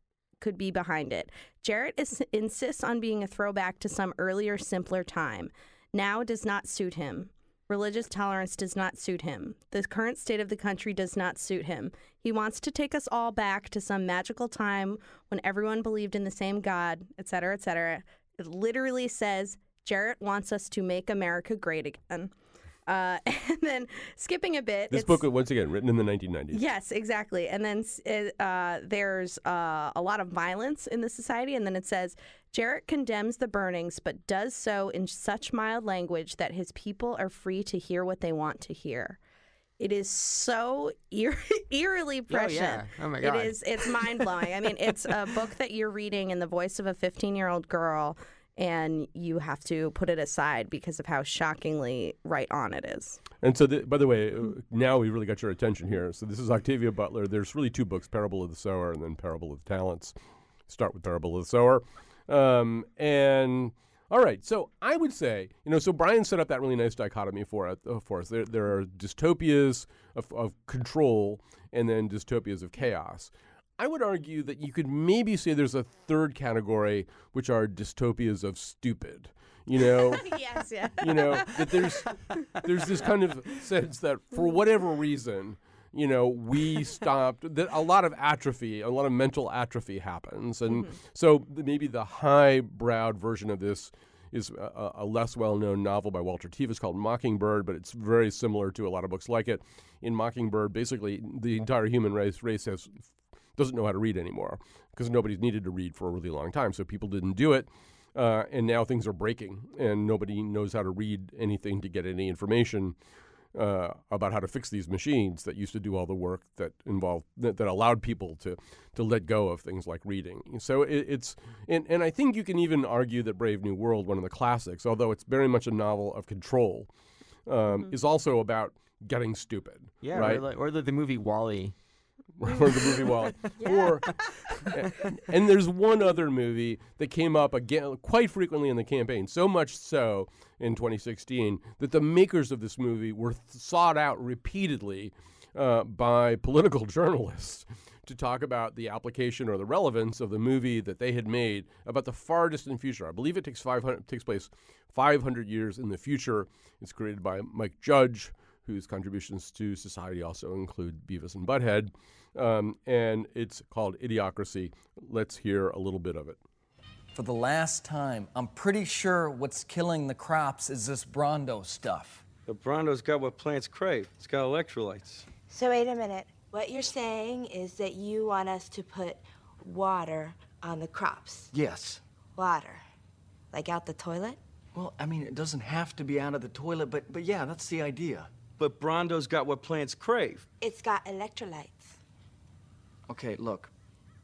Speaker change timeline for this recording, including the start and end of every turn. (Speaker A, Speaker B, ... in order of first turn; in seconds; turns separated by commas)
Speaker A: 0.4-22.3, Speaker A: 22.9-25.2, Speaker B: 24.9-26.6, Speaker A: 26.5-39.2, Speaker A: 39.8-53.2, Speaker C: 42.3-44.2, Speaker B: 53.4-60.1, Speaker B: 60.7-80.2, Speaker A: 80.1-81.8, Speaker B: 81.0-112.9, Speaker B: 113.5-126.9, Speaker B: 127.5-130.4, Speaker C: 130.0-131.7, Speaker B: 132.4-166.4, Speaker A: 133.6-133.9, Speaker D: 167.1-172.2, Speaker E: 172.4-175.3, Speaker F: 175.4-181.5, Speaker D: 181.5-182.0, Speaker F: 182.3-182.8, Speaker F: 183.5-184.4, Speaker D: 184.7-188.3, Speaker E: 188.6-190.5, Speaker F: 190.6-192.0, Speaker D: 193.1-193.7